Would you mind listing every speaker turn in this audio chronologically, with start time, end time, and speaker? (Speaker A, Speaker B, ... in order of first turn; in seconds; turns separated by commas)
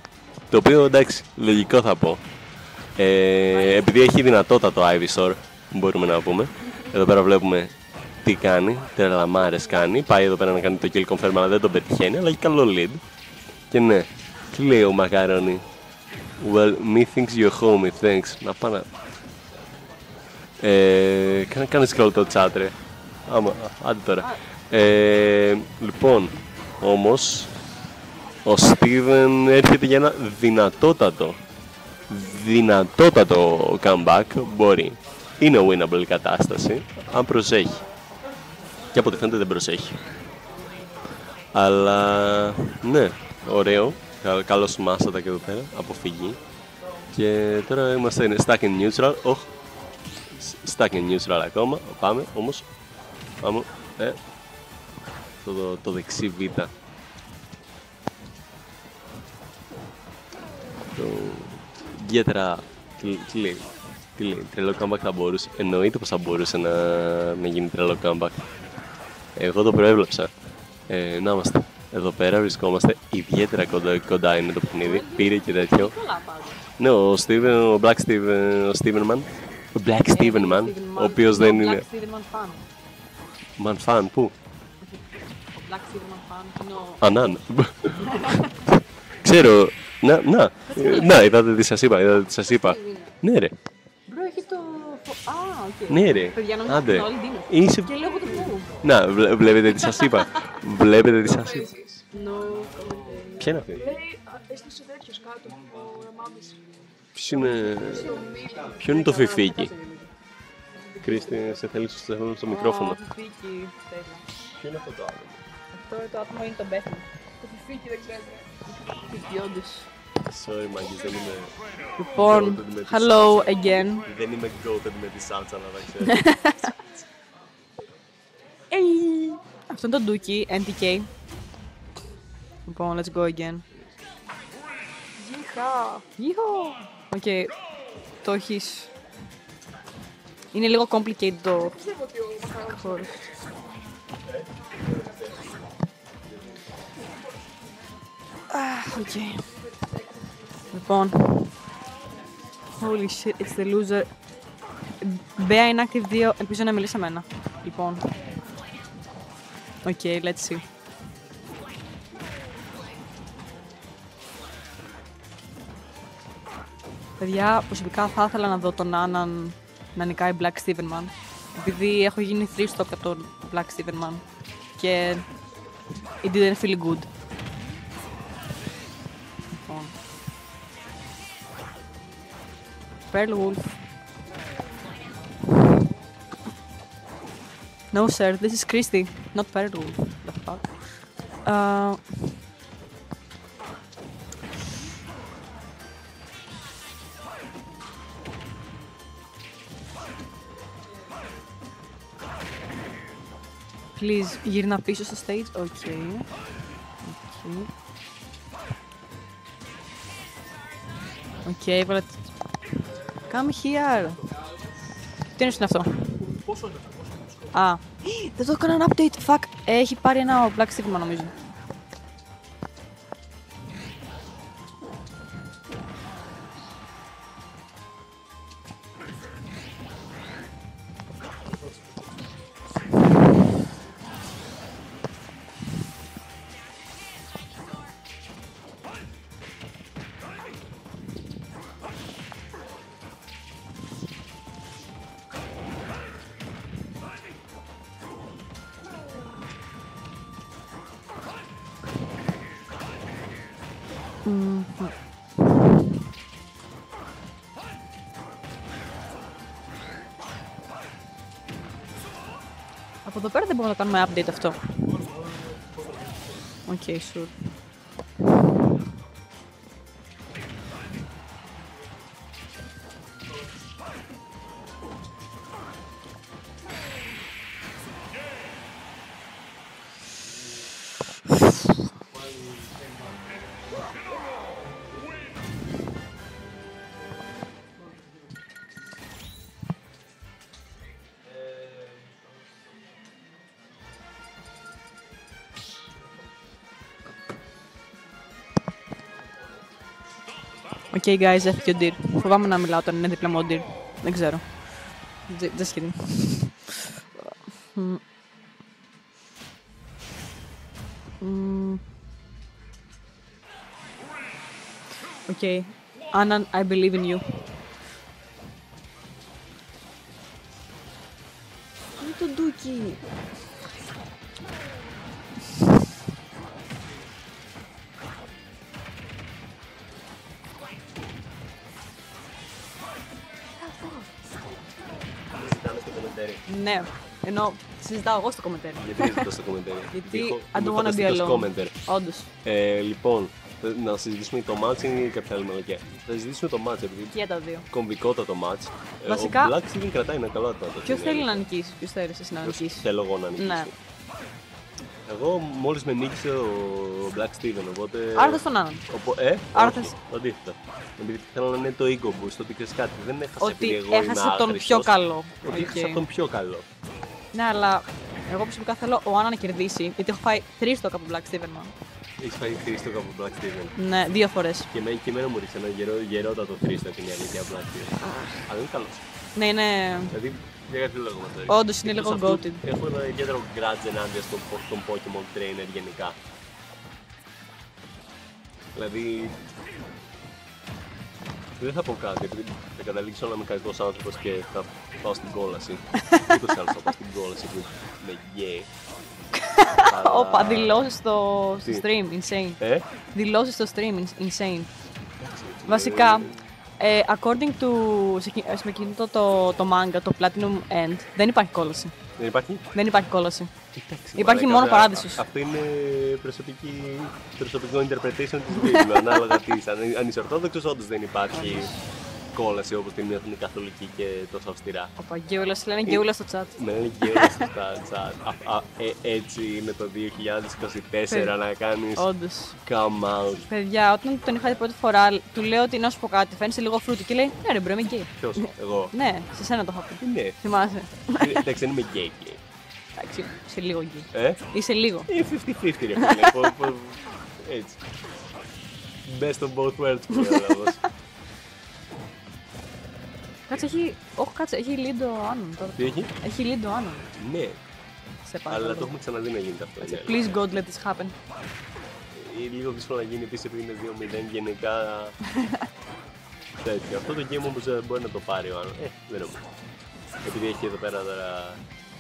Speaker A: 0.5-2.4, Speaker A: 2.9-13.1, Speaker A: 13.7-15.7, Speaker A: 16.4-18.9, Speaker A: 20.6-27.6, Speaker B: 24.2-24.5, Speaker A: 28.4-31.4, Speaker A: 32.1-37.9, Speaker A: 38.9-40.1, Speaker A: 41.5-46.4, Speaker A: 47.1-49.6, Speaker A: 50.3-52.8, Speaker A: 53.4-54.2, Speaker A: 55.4-56.7, Speaker A: 61.0-68.5, Speaker A: 69.3-76.0, Speaker B: 74.8-76.6, Speaker A: 76.8-81.9, Speaker B: 80.1-82.7, Speaker A: 83.6-84.3, Speaker B: 85.5-87.3, Speaker A: 87.0-88.6, Speaker B: 88.0-88.5, Speaker A: 89.2-93.5, Speaker B: 90.7-91.3, Speaker B: 92.6-93.2, Speaker B: 94.1-98.7, Speaker A: 95.9-98.0, Speaker A: 98.7-101.8, Speaker B: 99.7-100.5, Speaker B: 102.1-103.5, Speaker A: 103.4-104.0, Speaker C: 104.7-106.6, Speaker A: 107.2-109.7, Speaker B: 108.0-110.1, Speaker A: 111.0-113.0, Speaker B: 112.5-114.2, Speaker A: 114.6-115.4, Speaker B: 115.7-118.2, Speaker B: 118.8-119.9, Speaker A: 120.2-126.8, Speaker B: 122.0-124.0, Speaker B: 126.0-126.7, Speaker B: 128.7-131.1, Speaker B: 132.7-133.7, Speaker C: 135.4-136.0, Speaker B: 136.0-137.6, Speaker B: 138.2-138.9, Speaker B: 140.5-141.8, Speaker C: 142.1-142.6, Speaker B: 142.4-143.3, Speaker B: 148.5-149.6, Speaker B: 150.7-151.6, Speaker B: 152.8-154.2, Speaker B: 155.0-158.1, Speaker B: 159.8-160.6, Speaker B: 167.2-174.2, Speaker B: 174.8-175.3, Speaker B: 176.2-177.1, Speaker B: 179.6-179.9, Speaker B: 183.1-183.8, Speaker B: 187.9-192.4, Speaker B: 204.0-206.4, Speaker B: 207.0-207.7, Speaker B: 211.4-212.4, Speaker B: 213.2-214.2, Speaker B: 215.3-216.3, Speaker B: 217.5-221.3, Speaker B: 254.2-255.0, Speaker B: 263.0-264.8, Speaker B: 266.6-267.4, Speaker B: 300.9-306.8, Speaker B: 307.6-308.0, Speaker B: 311.2-311.9, Speaker B: 315.3-317.4, Speaker B: 322.0-323.0, Speaker B: 333.6-334.1, Speaker A: 335.3-336.4, Speaker B: 336.5-339.2, Speaker A: 338.8-341.9, Speaker B: 339.9-342.3, Speaker A: 342.4-351.4, Speaker B: 347.1-347.7, Speaker B: 349.1-349.5, Speaker B: 350.9-353.7, Speaker A: 352.4-353.7, Speaker A: 355.1-366.7, Speaker B: 358.1-358.9, Speaker B: 359.5-359.9, Speaker B: 363.4-366.0, Speaker B: 367.3-371.7, Speaker A: 372.2-373.8, Speaker B: 373.8-374.7, Speaker A: 374.7-379.0, Speaker B: 378.0-378.5, Speaker B: 379.4-380.1, Speaker A: 380.1-386.2, Speaker B: 381.5-382.6, Speaker A: 388.7-389.4, Speaker A: 391.6-398.7, Speaker B: 399.6-404.8, Speaker A: 399.8-401.0, Speaker A: 401.6-401.9, Speaker A: 402.5-402.9, Speaker A: 405.4-406.5, Speaker B: 405.6-411.9, Speaker A: 412.2-412.6, Speaker B: 412.7-415.2, Speaker A: 413.8-421.8, Speaker B: 418.6-418.9, Speaker B: 421.3-421.9, Speaker A: 422.3-424.9, Speaker B: 425.0-427.4, Speaker A: 425.9-433.5, Speaker B: 431.1-432.6, Speaker B: 433.5-441.4, Speaker A: 438.2-438.9, Speaker A: 440.0-440.5, Speaker A: 441.1-442.4, Speaker B: 443.0-445.1, Speaker A: 444.1-444.4, Speaker A: 445.1-447.8, Speaker B: 446.0-446.3, Speaker A: 449.1-450.8, Speaker B: 453.5-457.1, Speaker A: 455.8-456.1, Speaker A: 457.2-457.6, Speaker B: 458.2-458.9, Speaker A: 458.5-460.4, Speaker B: 459.8-461.2, Speaker A: 462.1-465.2, Speaker A: 466.6-469.4, Speaker A: 470.2-471.6